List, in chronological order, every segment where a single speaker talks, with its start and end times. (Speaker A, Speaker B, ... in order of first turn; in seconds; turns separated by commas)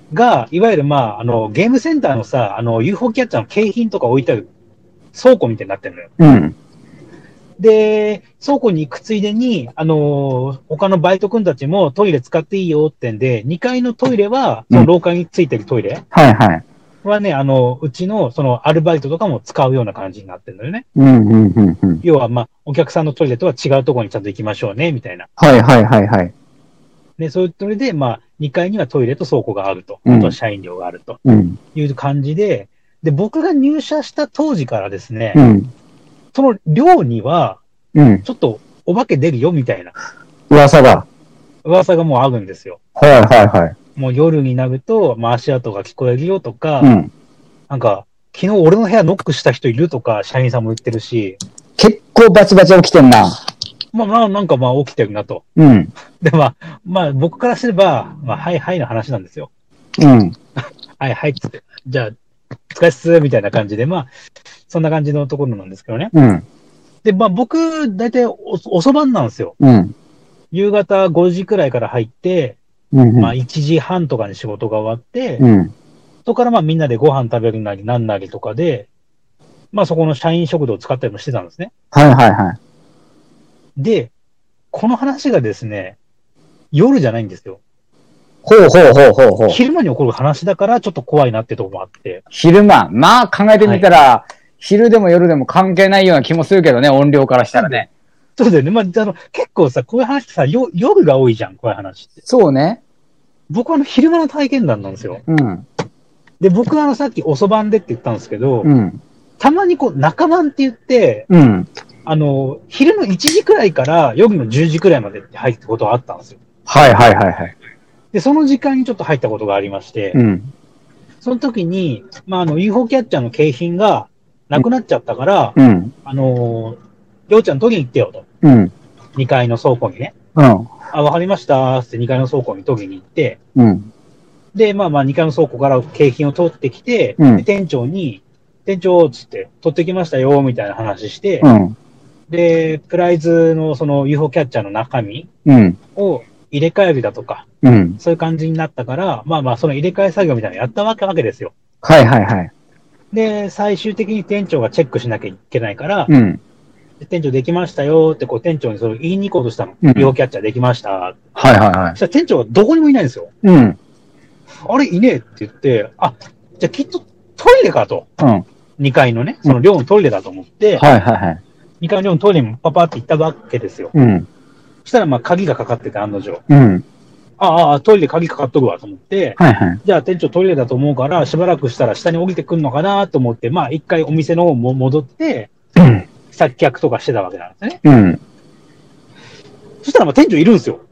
Speaker A: 0.1-4.5, Speaker A: 5.1-6.1, Speaker B: 6.2-6.5, Speaker A: 7.6-16.0, Speaker B: 16.1-16.6, Speaker A: 17.0-20.8, Speaker B: 20.9-22.0, Speaker A: 22.0-25.3, Speaker B: 25.4-26.3, Speaker A: 27.2-31.2, Speaker B: 30.1-30.4, Speaker B: 31.2-31.6, Speaker A: 31.7-35.4, Speaker B: 35.3-35.7, Speaker A: 36.3-37.6, Speaker B: 37.9-38.2, Speaker A: 38.2-39.9, Speaker B: 40.5-41.1, Speaker A: 41.6-42.8, Speaker B: 43.0-43.7, Speaker A: 44.0-46.9, Speaker B: 46.8-47.1, Speaker A: 47.7-51.4, Speaker B: 51.8-53.4, Speaker A: 53.9-55.4, Speaker B: 55.6-55.9, Speaker A: 56.2-59.5, Speaker B: 60.0-60.3, Speaker A: 61.0-62.1, Speaker A: 62.7-64.1, Speaker A: 64.7-66.1, Speaker B: 66.1-66.4, Speaker A: 67.0-69.5, Speaker B: 69.6-69.9, Speaker A: 70.5-72.6, Speaker B: 72.9-73.3, Speaker A: 73.2-75.4, Speaker B: 75.4-75.7, Speaker A: 76.2-78.9, Speaker A: 79.7-81.7, Speaker B: 81.9-82.6, Speaker A: 83.8-84.1, Speaker A: 84.7-86.0, Speaker A: 86.7-87.6, Speaker B: 88.4-89.6, Speaker A: 89.5-92.2, Speaker B: 92.3-97.9, Speaker A: 93.6-93.8, Speaker A: 97.5-97.8, Speaker A: 98.3-102.2, Speaker B: 102.2-102.8, Speaker A: 103.5-105.2, Speaker B: 105.3-105.6, Speaker A: 106.4-108.7, Speaker B: 108.6-109.0, Speaker A: 109.4-111.3, Speaker B: 111.3-111.7, Speaker A: 112.0-116.4, Speaker B: 116.7-117.5, Speaker A: 118.1-120.2, Speaker B: 120.1-120.5, Speaker A: 121.2-128.2, Speaker B: 125.6-125.9, Speaker B: 128.4-128.7, Speaker A: 129.2-130.1, Speaker B: 130.3-130.7, Speaker A: 130.9-133.4, Speaker B: 133.6-133.9, Speaker A: 134.5-141.5, Speaker B: 137.2-137.4, Speaker B: 141.4-141.8, Speaker A: 142.3-145.3, Speaker B: 145.4-145.8, Speaker A: 145.9-147.4, Speaker B: 147.6-148.0, Speaker A: 148.0-151.5, Speaker B: 151.8-152.5, Speaker A: 153.1-156.1, Speaker B: 156.1-156.4, Speaker A: 157.0-161.2, Speaker B: 159.8-160.1, Speaker B: 161.3-162.0, Speaker A: 162.0-163.3, Speaker B: 163.4-163.8, Speaker A: 164.7-168.1, Speaker B: 168.2-168.4, Speaker A: 168.8-170.8, Speaker B: 170.8-171.4, Speaker A: 171.8-173.9, Speaker B: 173.9-174.3, Speaker A: 174.8-176.4, Speaker B: 176.5-176.8, Speaker A: 177.4-185.5, Speaker B: 179.4-179.8, Speaker B: 185.8-186.0, Speaker A: 186.3-187.8, Speaker B: 187.8-188.2, Speaker A: 189.8-190.8